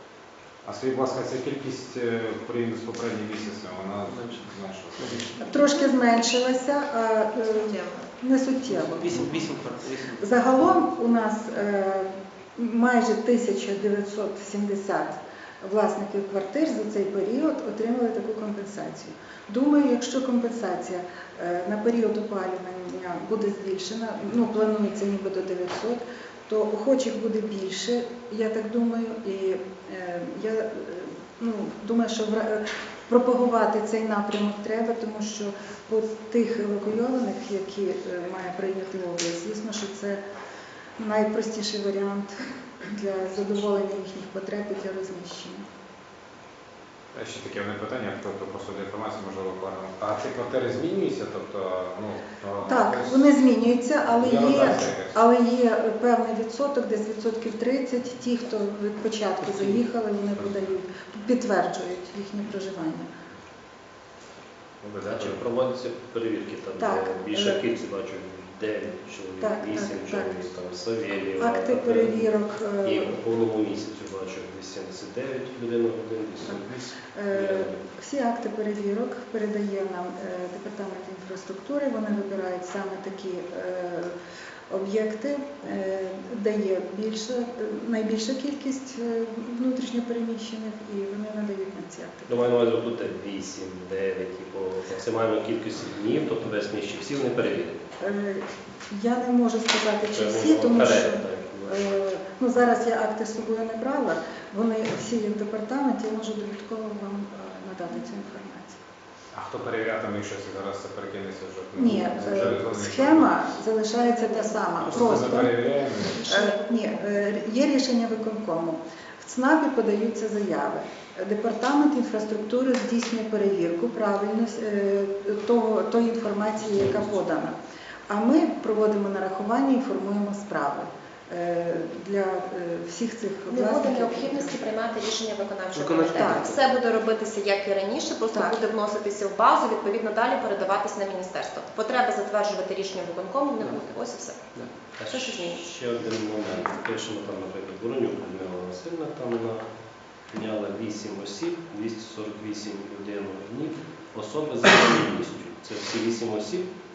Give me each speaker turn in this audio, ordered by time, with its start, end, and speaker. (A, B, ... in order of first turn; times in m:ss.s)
0:00.6-0:05.3 A
0:04.1-0:04.4 B
0:05.0-0:05.5 B
0:05.4-0:09.4 C
0:07.5-0:08.1 D
0:08.7-0:10.5 B
0:10.2-0:40.2 C
0:41.0-0:45.6 C
0:47.1-0:53.3 A
0:52.6-1:03.1 C
0:54.1-0:55.2 A
0:59.4-0:59.8 B
1:04.8-1:05.4 A
1:05.0-1:12.3 E
1:06.8-1:07.6 C
1:09.4-1:10.5 C
1:11.4-1:13.2 C
1:12.8-1:17.8 E
1:16.5-1:24.2 C
1:24.7-1:32.5 C
1:32.3-1:37.8 E
1:38.0-1:48.8 C
1:40.0-1:42.0 E
1:49.3-1:53.4 A
1:51.8-2:07.6 C
1:54.2-1:55.0 D
1:54.8-1:56.2 A
1:56.0-1:57.0 D
2:08.1-2:14.6 C
2:13.5-2:24.5 D
2:15.7-2:16.6 B
2:16.1-2:16.5 C
2:18.3-2:18.6 C
2:25.0-2:29.7 E
2:25.1-2:25.6 D
2:30.3-2:36.7 E